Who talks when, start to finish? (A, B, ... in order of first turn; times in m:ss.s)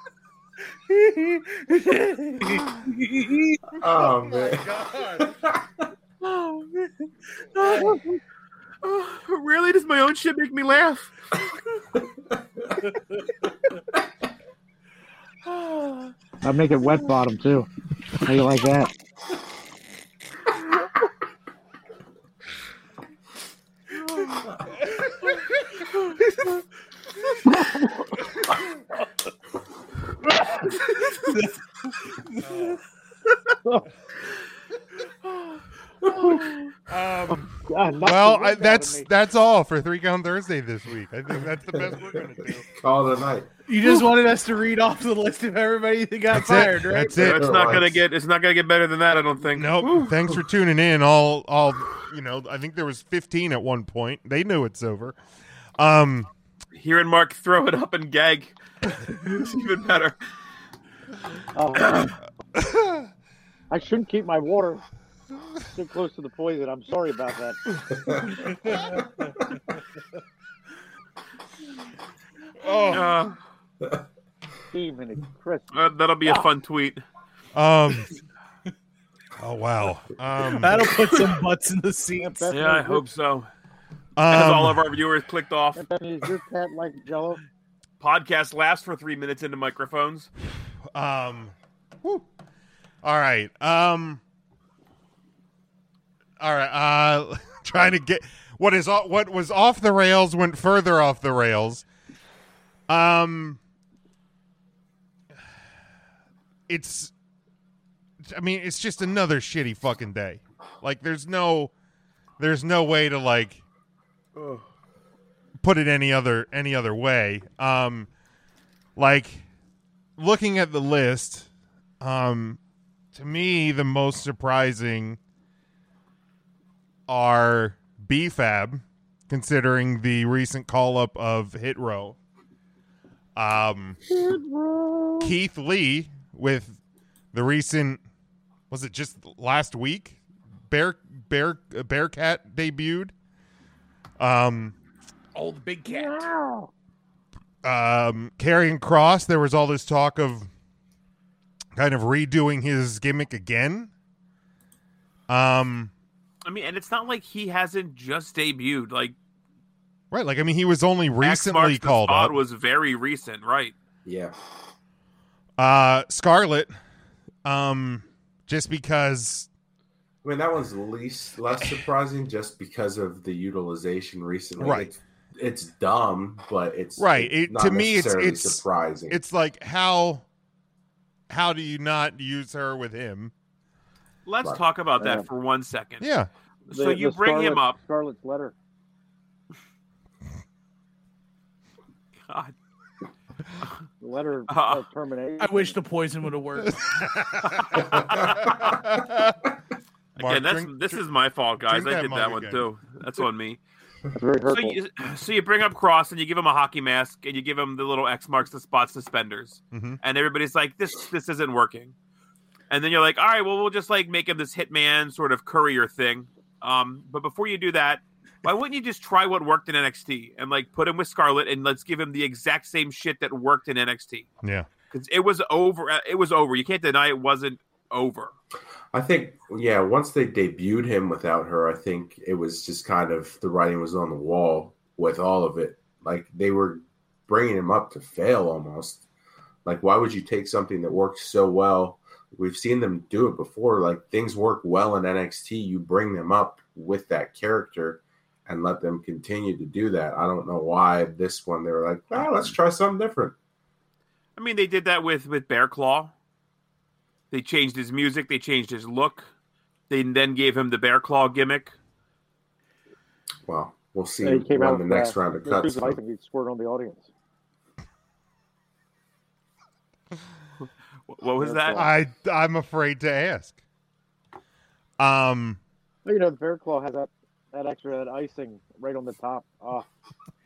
0:00.9-0:03.8 A
0:03.8-0:05.7 B
0:06.2-0:08.0 A
0:07.7-0:08.0 C
0:08.8-0:11.1 D
0:15.5-0:16.1 A
0:16.4-0:17.7 C
0:18.2-0:18.9 C
0:26.0-0:26.6 A
0:27.5-0:28.0 C
0:31.0-0:31.5 A
0:37.3-0:39.1 C
0:38.0-0:42.7 E
0:41.7-0:42.2 B
0:42.7-0:43.5 B
0:43.7-0:47.2 A
0:46.3-0:47.8 E
0:47.2-0:48.0 B
0:47.2-0:50.2 D
0:49.6-0:55.2 E
0:55.8-0:56.3 E
0:56.7-1:00.2 D
1:01.6-1:02.2 C
1:02.6-1:03.1 E
1:03.7-1:04.8 C
1:05.7-1:07.8 C
1:12.6-1:13.1 E
1:12.9-1:13.4 D
1:14.7-1:15.7 C
1:15.7-1:17.0 D
1:17.5-1:18.1 E
1:19.4-1:21.0 E
1:20.5-1:22.5 A
1:22.2-1:23.0 C
1:22.5-1:23.5 D
1:24.2-1:24.8 E
1:24.3-1:25.8 D
1:25.8-1:27.4 C
1:28.0-1:30.3 D
1:30.9-1:32.3 E
1:33.0-1:34.2 E
1:36.4-1:41.8 E
1:42.9-1:43.6 E
1:46.7-1:47.1 E
1:48.2-1:51.7 E
1:52.4-1:53.6 E
1:55.6-1:58.1 E
1:59.0-1:59.4 E
2:00.2-2:01.5 E
2:02.0-2:02.6 E
2:03.1-2:05.2 E
2:07.1-2:12.2 E
2:13.4-2:14.0 E
2:14.1-2:15.3 C
2:15.2-2:16.8 E
2:17.3-2:18.0 E
2:18.7-2:20.2 E
2:20.7-2:23.1 E
2:24.2-2:24.8 E
2:25.3-2:26.3 A
2:25.9-2:26.7 C
2:27.6-2:30.5 E
2:31.8-2:33.9 E
2:35.3-2:35.9 E
2:36.4-2:39.2 D
2:40.1-2:42.4 E
2:41.2-2:43.8 D
2:44.0-2:44.3 B
2:45.6-2:46.7 E
2:47.4-2:49.5 E
2:50.2-2:59.2 B
2:54.6-2:54.9 E
2:57.0-3:00.3 E
3:01.3-3:03.3 E
3:04.3-3:06.1 D
3:05.0-3:05.3 C
3:06.0-3:06.3 E
3:06.7-3:07.8 D
3:06.7-3:08.5 C
3:12.3-3:12.6 D
3:14.0-3:15.8 C
3:14.5-3:14.8 D
3:15.4-3:16.8 A
3:16.6-3:19.4 E
3:18.0-3:18.5 B
3:20.2-3:21.0 E
3:20.2-3:23.6 D
3:21.6-3:22.7 E
3:24.2-3:24.8 C
3:24.5-3:32.0 D
3:29.7-3:30.0 E
3:32.7-3:44.3 D
3:44.4-3:44.7 E
3:44.9-3:48.3 D
3:48.9-3:59.0 B
3:59.6-4:13.4 B
4:14.4-4:16.1 D
4:17.3-4:19.3 D
4:19.9-4:21.8 D
4:23.5-4:26.0 B
4:24.2-4:27.1 C
4:31.1-4:31.9 D
4:31.4-4:31.9 C
4:31.8-4:33.6 E
4:35.0-4:35.6 E
4:36.0-4:39.9 C